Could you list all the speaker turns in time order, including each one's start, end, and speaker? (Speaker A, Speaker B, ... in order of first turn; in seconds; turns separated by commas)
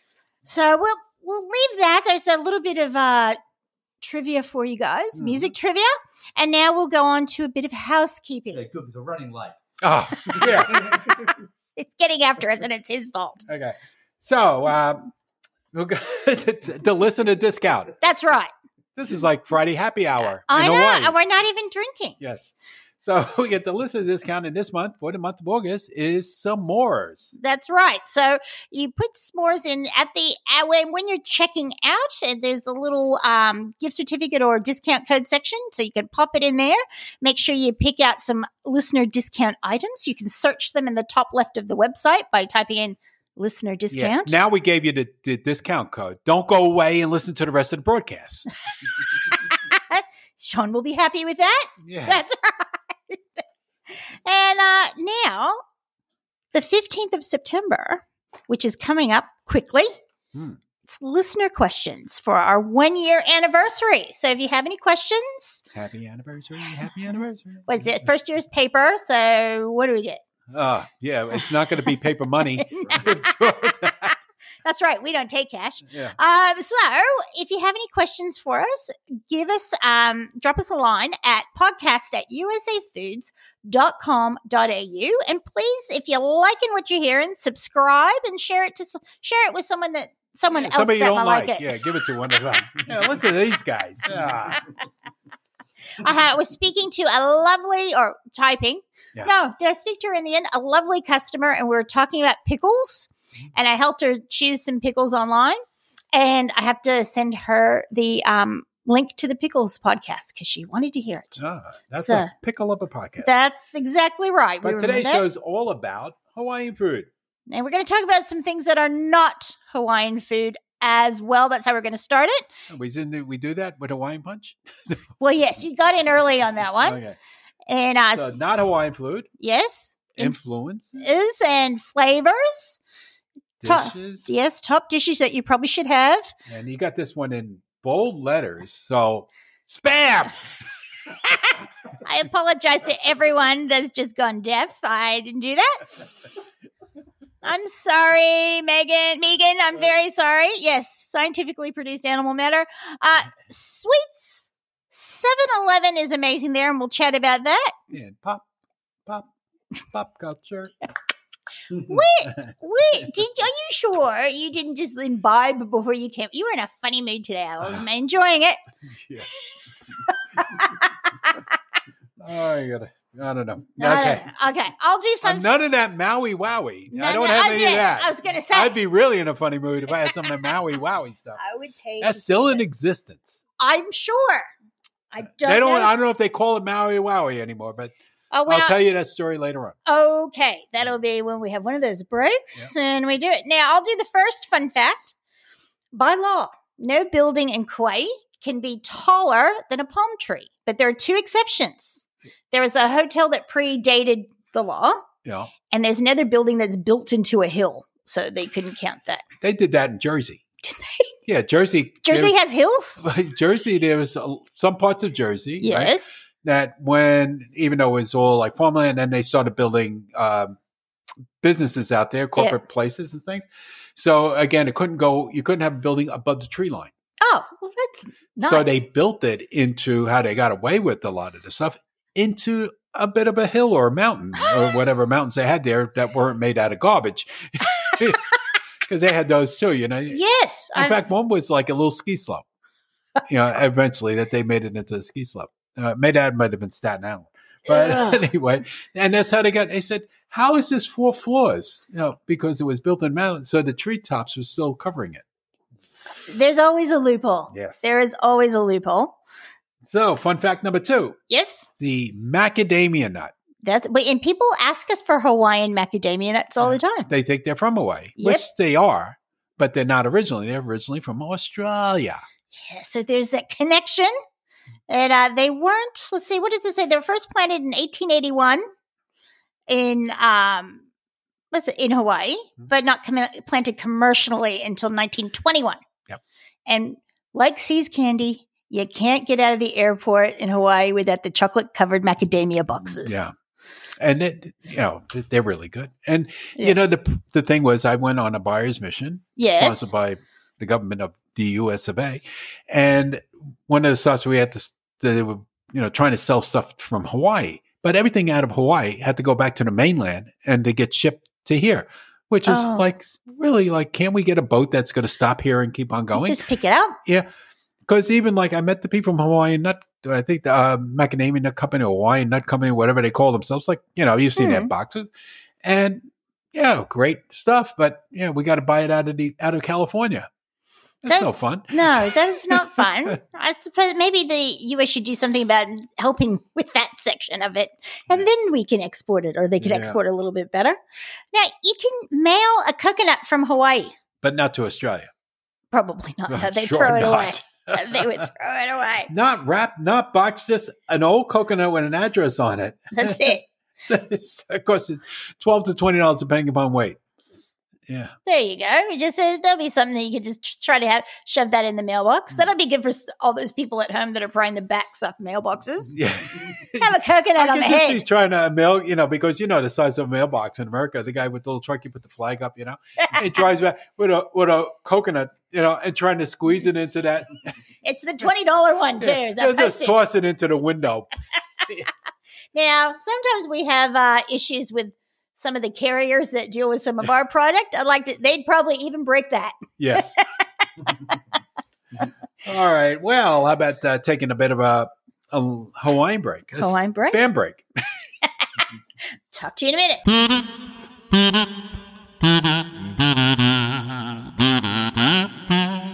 Speaker A: 0.5-3.4, Speaker A: 4.0-8.6, Speaker B: 5.1-5.5, Speaker C: 8.5-9.6, Speaker B: 9.8-11.1, Speaker C: 10.3-11.3, Speaker A: 11.8-13.4, Speaker B: 13.5-15.1, Speaker B: 15.7-18.0, Speaker A: 18.0-18.5, Speaker B: 19.0-21.2, Speaker A: 20.5-22.2, Speaker B: 22.2-27.3, Speaker A: 27.4-44.4, Speaker B: 43.9-48.5, Speaker A: 49.3-53.4, Speaker B: 51.8-52.2, Speaker A: 53.9-55.6, Speaker A: 56.5-59.9, Speaker A: 60.8-65.6, Speaker B: 65.7-67.9, Speaker A: 67.7-70.2, Speaker B: 70.5-74.2, Speaker A: 72.7-73.8, Speaker A: 74.6-91.7, Speaker B: 75.9-76.2, Speaker B: 90.5-94.7, Speaker A: 96.0-105.6, Speaker A: 106.1-111.4, Speaker B: 111.4-113.3, Speaker A: 112.0-112.3, Speaker A: 113.2-115.2, Speaker B: 114.6-117.1, Speaker A: 117.5-122.5, Speaker B: 122.7-125.0, Speaker A: 125.2-127.0, Speaker B: 126.8-127.2, Speaker A: 127.7-128.3, Speaker B: 128.1-129.3, Speaker A: 129.4-130.4, Speaker B: 130.2-131.0, Speaker A: 131.0-132.8, Speaker B: 133.6-134.3, Speaker A: 133.6-136.3, Speaker B: 136.5-140.5, Speaker A: 142.0-145.9, Speaker A: 147.4-157.8, Speaker B: 157.9-158.5, Speaker B: 159.9-160.7, Speaker A: 161.7-168.6, Speaker B: 161.9-162.5, Speaker B: 168.8-169.3, Speaker A: 170.4-171.6, Speaker B: 172.2-174.3, Speaker A: 173.8-175.5, Speaker B: 175.2-181.4, Speaker A: 176.9-178.7, Speaker A: 181.4-182.6, Speaker B: 182.0-183.4, Speaker A: 183.6-184.5, Speaker A: 185.1-185.9, Speaker B: 185.4-187.9, Speaker A: 188.3-188.8, Speaker B: 188.5-189.8, Speaker A: 189.9-195.2, Speaker A: 195.9-205.0, Speaker B: 205.2-205.5, Speaker A: 205.7-209.2, Speaker B: 209.4-210.4, Speaker A: 210.6-211.1, Speaker B: 211.3-212.4, Speaker A: 212.0-213.1, Speaker B: 213.0-220.6, Speaker A: 215.6-216.2, Speaker B: 221.4-226.9, Speaker A: 227.2-228.8, Speaker B: 228.5-238.3, Speaker B: 238.8-240.2, Speaker A: 240.1-241.1, Speaker B: 240.8-242.4, Speaker B: 243.3-255.2, Speaker A: 247.7-248.2, Speaker A: 256.2-259.2, Speaker B: 257.5-257.9, Speaker B: 259.8-261.2, Speaker A: 261.3-261.7, Speaker B: 261.8-263.3, Speaker A: 263.6-267.1, Speaker B: 267.1-272.2, Speaker A: 268.2-268.5, Speaker A: 272.5-274.1, Speaker A: 274.9-278.6, Speaker A: 279.7-280.8, Speaker A: 281.5-285.8, Speaker A: 286.7-293.3, Speaker B: 293.0-293.3, Speaker B: 294.0-316.4, Speaker A: 299.4-299.9, Speaker A: 312.5-312.9, Speaker A: 316.1-317.0, Speaker B: 317.9-325.1, Speaker A: 324.4-324.7, Speaker B: 325.6-330.3, Speaker B: 331.0-333.1, Speaker A: 331.1-340.8, Speaker B: 339.6-340.0, Speaker A: 341.3-343.9, Speaker B: 344.2-345.1, Speaker A: 345.7-349.1, Speaker B: 346.3-348.3, Speaker B: 349.1-357.0, Speaker A: 352.9-353.4, Speaker B: 357.9-358.1, Speaker A: 358.3-366.0, Speaker B: 365.9-377.5, Speaker A: 366.7-368.0, Speaker A: 377.8-380.0, Speaker B: 379.0-381.1, Speaker A: 382.5-390.4, Speaker B: 389.8-390.2, Speaker B: 392.4-397.9, Speaker A: 396.6-397.2, Speaker A: 398.2-398.5, Speaker A: 399.3-400.1